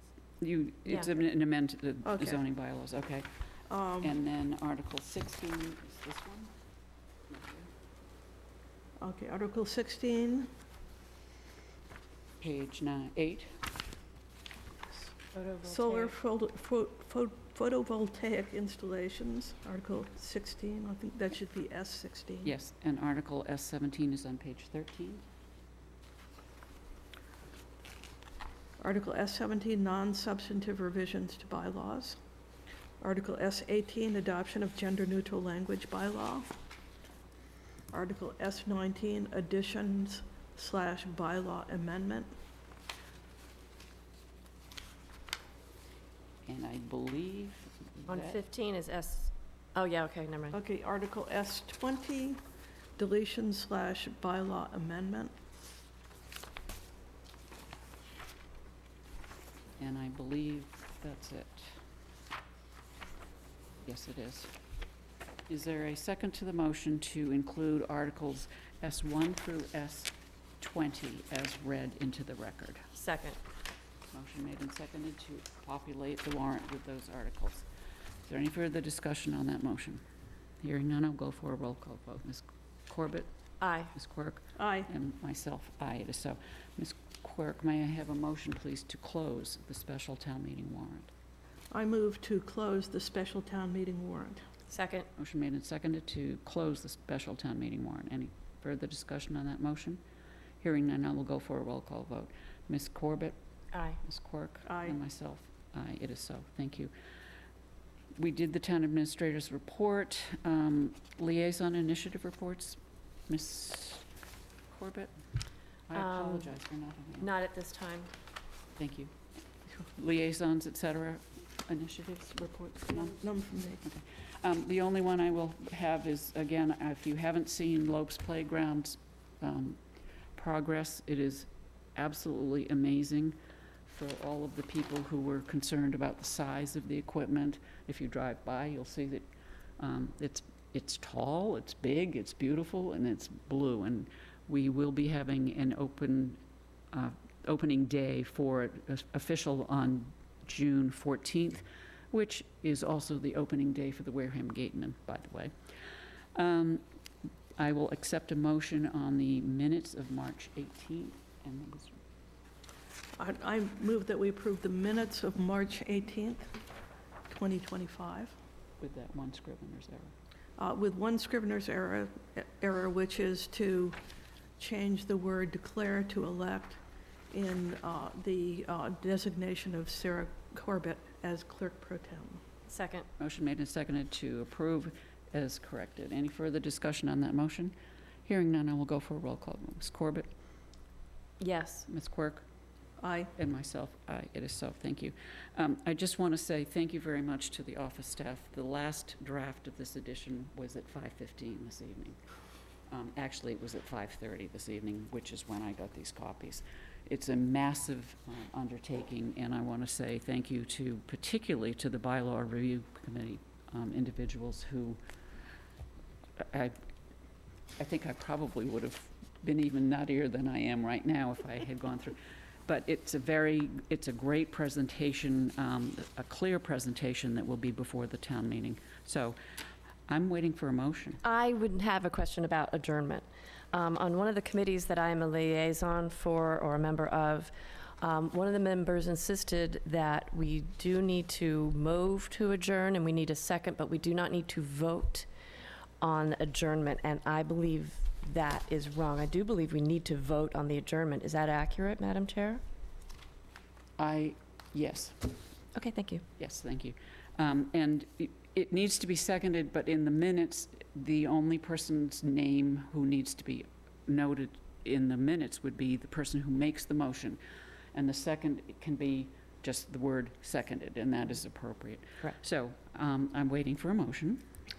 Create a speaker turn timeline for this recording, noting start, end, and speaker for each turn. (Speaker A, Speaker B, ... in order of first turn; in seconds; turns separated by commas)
Speaker A: 0.4-3.3, Speaker B: 2.0-2.4, Speaker B: 3.7-4.2, Speaker A: 4.0-6.5, Speaker A: 7.3-7.7, Speaker B: 9.0-10.5, Speaker A: 12.4-13.5, Speaker C: 15.3-16.1, Speaker B: 15.6-22.5, Speaker A: 22.4-25.2, Speaker B: 28.8-32.2, Speaker B: 33.0-36.5, Speaker B: 37.9-42.3, Speaker A: 46.5-48.4, Speaker C: 48.1-50.6, Speaker B: 50.5-52.4, Speaker B: 53.0-55.3, Speaker A: 59.8-61.8, Speaker A: 63.8-64.5, Speaker A: 65.5-72.9, Speaker C: 72.9-73.4, Speaker A: 74.1-77.7, Speaker A: 78.2-80.0, Speaker A: 80.6-83.3, Speaker C: 83.6-83.9, Speaker A: 83.9-91.1, Speaker B: 84.5-84.9, Speaker B: 91.7-94.4, Speaker C: 94.7-95.1, Speaker A: 95.2-100.0, Speaker A: 100.6-103.3, Speaker C: 103.7-104.0, Speaker A: 104.0-106.9, Speaker B: 104.6-105.0, Speaker A: 108.2-114.0, Speaker A: 114.7-115.1, Speaker A: 115.9-117.3, Speaker C: 115.9-116.5, Speaker C: 117.2-118.1, Speaker A: 118.8-119.1, Speaker A: 119.8-123.2, Speaker B: 122.9-123.8, Speaker A: 123.8-129.8, Speaker A: 130.3-139.2, Speaker A: 139.8-146.4, Speaker A: 146.9-155.5, Speaker A: 156.3-156.8, Speaker A: 157.6-162.0, Speaker B: 163.2-166.5, Speaker B: 167.3-168.3, Speaker A: 168.8-170.1, Speaker B: 170.6-174.0, Speaker B: 174.6-176.8, Speaker B: 177.3-182.4, Speaker C: 182.7-183.1, Speaker A: 183.2-187.7, Speaker A: 188.2-190.3, Speaker C: 191.4-191.9, Speaker A: 191.9-192.4, Speaker B: 193.0-193.3, Speaker A: 193.3-202.2, Speaker A: 202.9-215.0, Speaker A: 216.4-216.7, Speaker A: 217.8-229.4, Speaker A: 230.1-231.2, Speaker C: 231.2-245.3, Speaker C: 246.0-252.6, Speaker A: 254.0-255.4, Speaker C: 255.7-256.2, Speaker A: 256.4-267.4, Speaker A: 267.9-274.4